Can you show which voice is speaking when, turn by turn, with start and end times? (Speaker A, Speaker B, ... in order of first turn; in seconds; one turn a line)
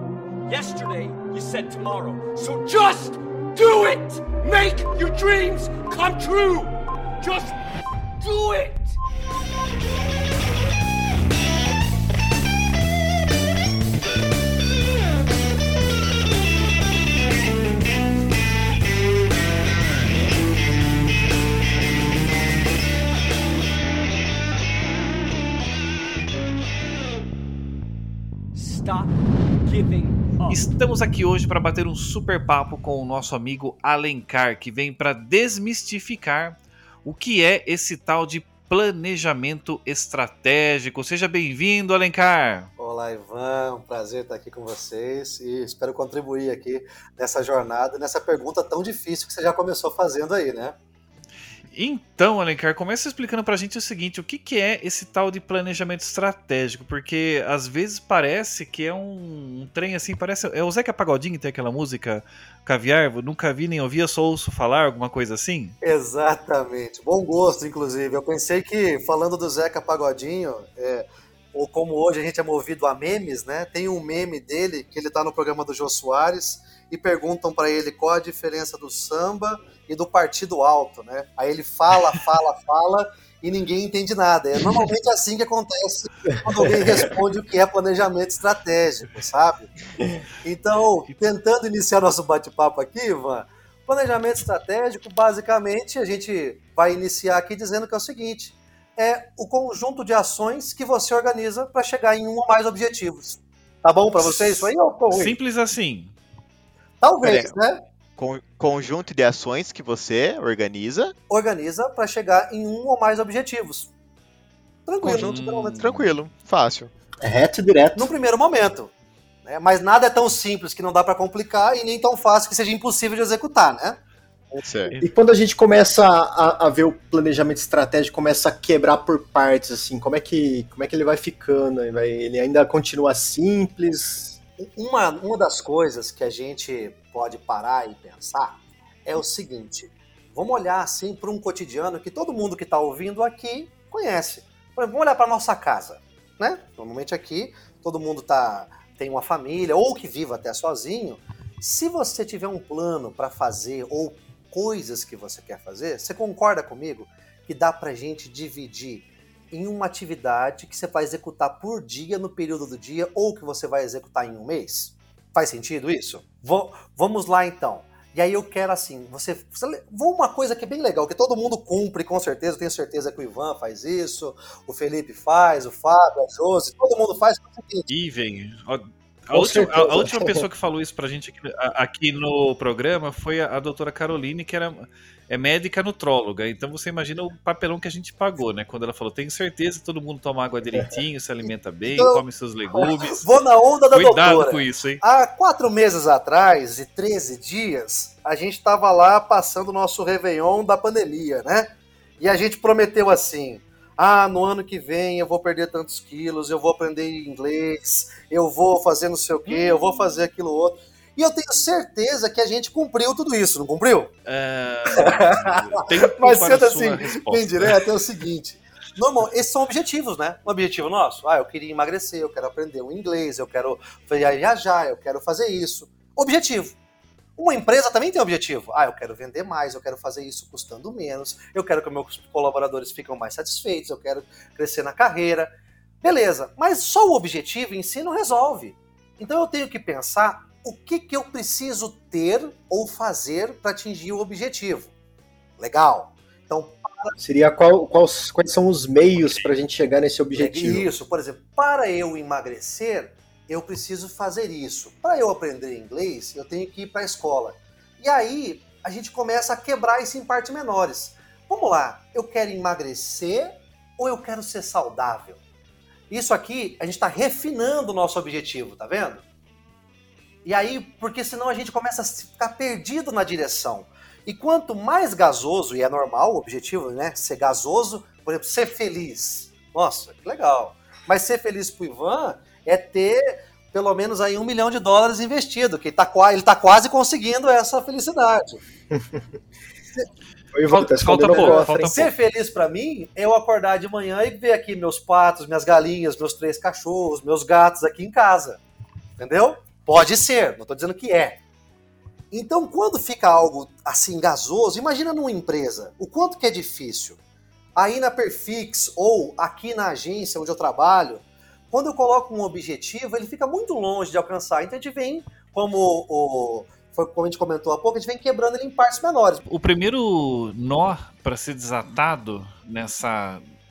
Speaker A: 0.5-7.6
Speaker A: 8.2-9.0
Speaker A: 28.5-30.6
Speaker B: 30.5-42.7
Speaker C: 42.8-50.8
Speaker B: 51.7-65.8
Speaker C: 65.8-89.7
Speaker C: 90.4-105.3
Speaker B: 104.2-106.1
Speaker C: 107.0-107.8
Speaker D: 107.2-107.5
Speaker D: 108.2-111.1
Speaker C: 111.3-113.9
Speaker C: 114.9-115.9
Speaker B: 115.0-116.2
Speaker D: 115.0-116.9
Speaker E: 117.2-118.1
Speaker C: 117.9-118.9
Speaker C: 119.4-124.0
Speaker D: 124.6-124.9
Speaker E: 125.0-134.4
Speaker C: 134.6-177.9
Speaker B: 177.9-193.2
Speaker E: 179.3-180.4
Speaker C: 191.4-192.2
Speaker C: 192.8-214.1
Speaker B: 193.9-195.0
Speaker B: 214.3-217.9
Speaker C: 214.9-226.8
Speaker C: 227.4-235.5
Speaker C: 236.0-244.9
Speaker C: 245.6-247.2
Speaker E: 247.2-250.9
Speaker C: 250.3-265.4
Speaker C: 266.1-269.2
Speaker C: 270.4-288.6
Speaker E: 288.9-289.4
Speaker E: 290.5-292.1
Speaker B: 290.7-292.1
Speaker C: 291.2-298.6
Speaker C: 299.2-301.4
Speaker C: 302.3-307.2
Speaker C: 307.8-319.4
Speaker B: 319.4-323.4